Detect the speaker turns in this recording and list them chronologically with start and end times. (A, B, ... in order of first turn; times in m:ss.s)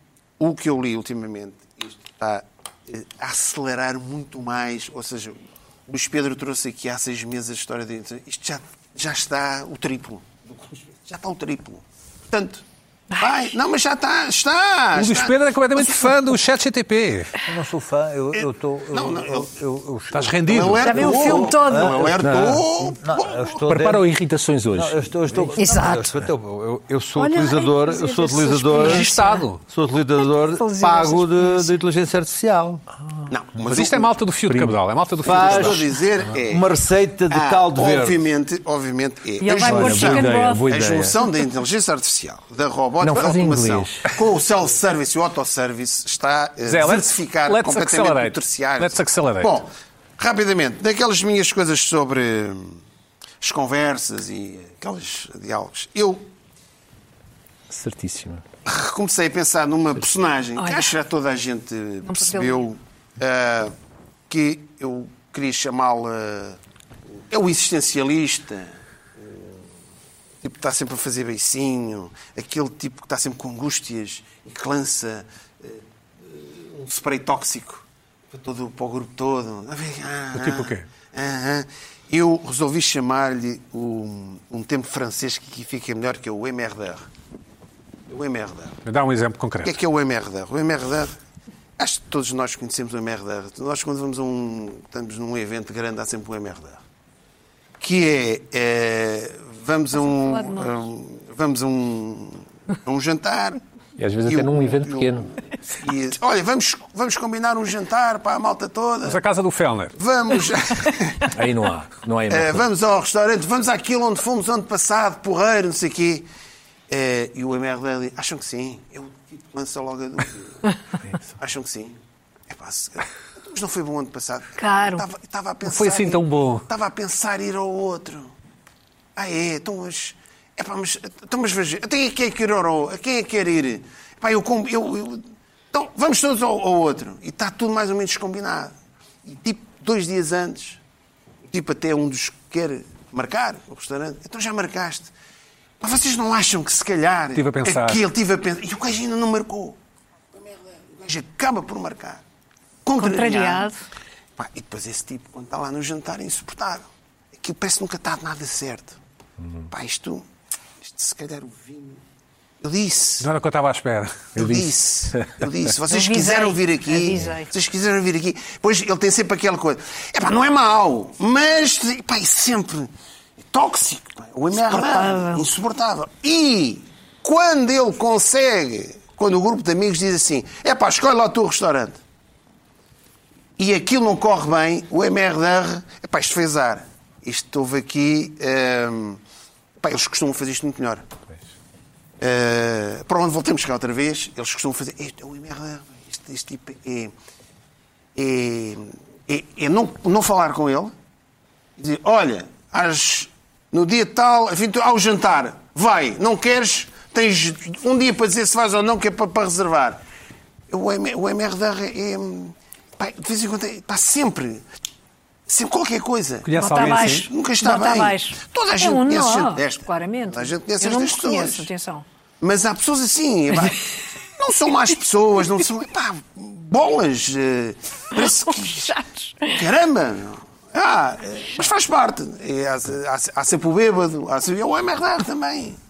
0:00.4-0:12.6 A
0:13.2-0:16.2 A
0:14.9-0:17.3 B
0:17.4-0:20.3 C
0:18.3-0:19.5 A
0:20.1-0:21.0 B
0:20.5-0:23.5 A
0:20.8-0:22.0 D
0:21.0-0:24.0 C
0:22.2-0:22.6 E
0:23.6-0:25.5 E
0:24.8-0:32.8 C
0:25.6-0:26.1 D
0:27.2-0:29.5 D
0:28.8-0:29.6 B
0:30.4-0:31.7 D
0:33.3-0:34.2 A
0:33.6-0:35.9 B
0:34.5-0:34.8 E
0:35.2-0:35.9 C
0:35.2-0:36.7 A
0:36.4-0:38.2 C
0:37.3-0:52.8 A
0:39.4-0:40.7 D
0:39.6-0:41.2 E
0:43.0-0:44.1 E
0:46.7-0:49.6 B
0:53.4-0:56.2 A
0:57.7-0:58.4 E
0:58.7-1:03.7 A
1:00.6-1:00.9 D
1:02.1-1:02.7 D
1:04.3-1:06.6 A
1:07.2-1:09.5 A
1:10.4-1:27.1 A
1:20.3-1:20.8 B
1:28.1-1:28.8 A
1:28.8-1:29.7 B
1:29.6-1:31.1 A
1:31.8-1:36.8 A
1:37.8-1:43.6 A
1:40.0-1:40.8 D
1:44.0-1:45.3 E
1:44.3-1:49.2 A
1:49.0-1:50.0 B
1:50.0-1:51.3 A
1:51.3-1:52.7 E
1:52.3-1:56.3 A
1:56.9-2:00.7 A
2:01.4-2:08.3 A
2:04.6-2:05.0 D
2:05.6-2:06.7 B
2:09.2-2:18.7 A
2:19.2-2:20.8 A
2:21.5-2:25.1 A
2:25.8-2:29.8 A
2:27.4-2:28.0 B
2:30.4-2:32.2 A
2:32.8-2:33.7 A
2:33.0-2:33.8 D
2:34.4-2:39.0 A
2:39.7-2:40.2 A
2:40.8-2:42.0 A
2:42.6-2:43.3 A
2:43.2-2:44.4 B
2:44.4-2:52.9 A
2:44.4-2:45.3 E
2:45.9-2:47.5 D
2:53.4-3:02.0 A
2:54.6-2:55.4 D
3:03.6-3:09.2 A
3:09.8-3:11.0 A
3:12.2-3:17.1 A
3:18.2-3:20.9 A
3:21.8-3:30.0 A
3:30.7-3:34.6 A
3:35.5-3:41.7 A
3:36.4-3:37.3 B
3:36.6-3:42.0 D
3:42.4-3:49.0 A
3:48.7-3:49.6 D
3:49.5-3:55.8 A